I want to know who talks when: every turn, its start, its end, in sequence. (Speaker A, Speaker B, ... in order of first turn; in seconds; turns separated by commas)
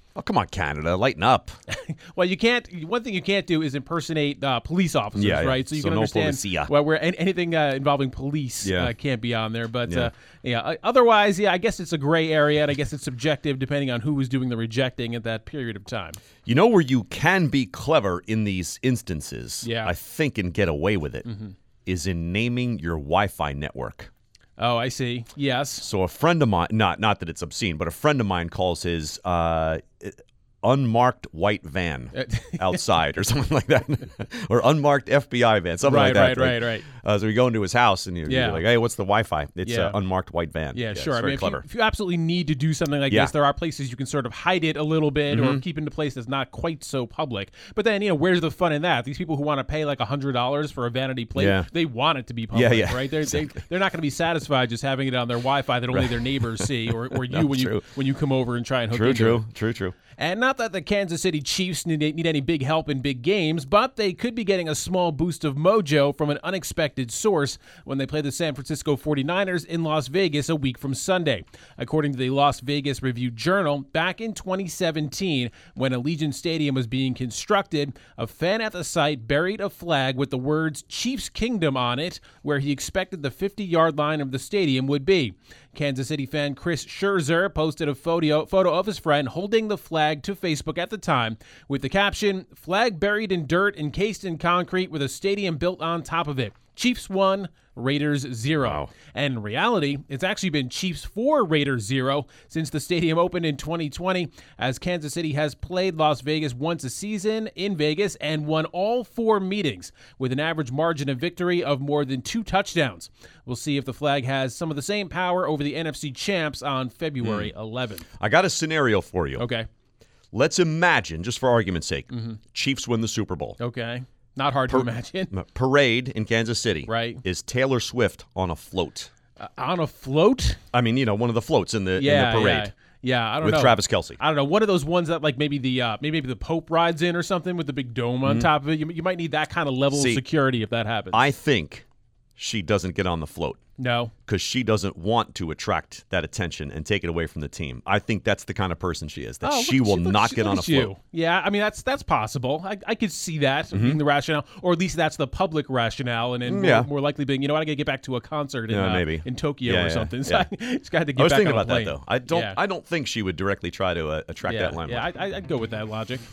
Speaker A: 0.1-1.5, Speaker B: 1.7-16.2, Speaker A: 5.2-6.7, Speaker A: 8.6-8.9, Speaker A: 16.4-21.3, Speaker B: 19.6-19.9, Speaker B: 21.2-21.6, Speaker A: 21.9-24.1, Speaker B: 24.6-25.9, Speaker A: 25.8-41.6, Speaker B: 32.1-32.8, Speaker B: 35.8-36.9, Speaker B: 38.3-38.6, Speaker B: 39.6-40.0, Speaker B: 40.7-59.5, Speaker A: 45.3-45.6, Speaker A: 51.4-51.7, Speaker A: 52.5-53.6, Speaker A: 55.9-57.9, Speaker A: 58.9-60.0, Speaker B: 60.2-118.0, Speaker A: 98.6-98.9, Speaker A: 117.2-117.5, Speaker A: 118.2-119.5, Speaker B: 119.4-119.7, Speaker A: 120.3-123.6, Speaker B: 122.1-122.4, Speaker B: 123.6-125.3, Speaker A: 124.7-129.1, Speaker B: 126.9-127.2, Speaker B: 129.4-130.6, Speaker A: 130.7-132.7, Speaker B: 132.0-141.2, Speaker A: 133.4-134.2, Speaker A: 139.9-140.2, Speaker A: 141.1-141.9, Speaker A: 142.4-143.6, Speaker B: 143.8-144.1, Speaker A: 144.3-150.9, Speaker B: 149.4-162.6, Speaker A: 153.7-154.0, Speaker A: 156.5-156.9, Speaker A: 158.7-160.5, Speaker A: 161.2-165.1, Speaker B: 164.4-166.2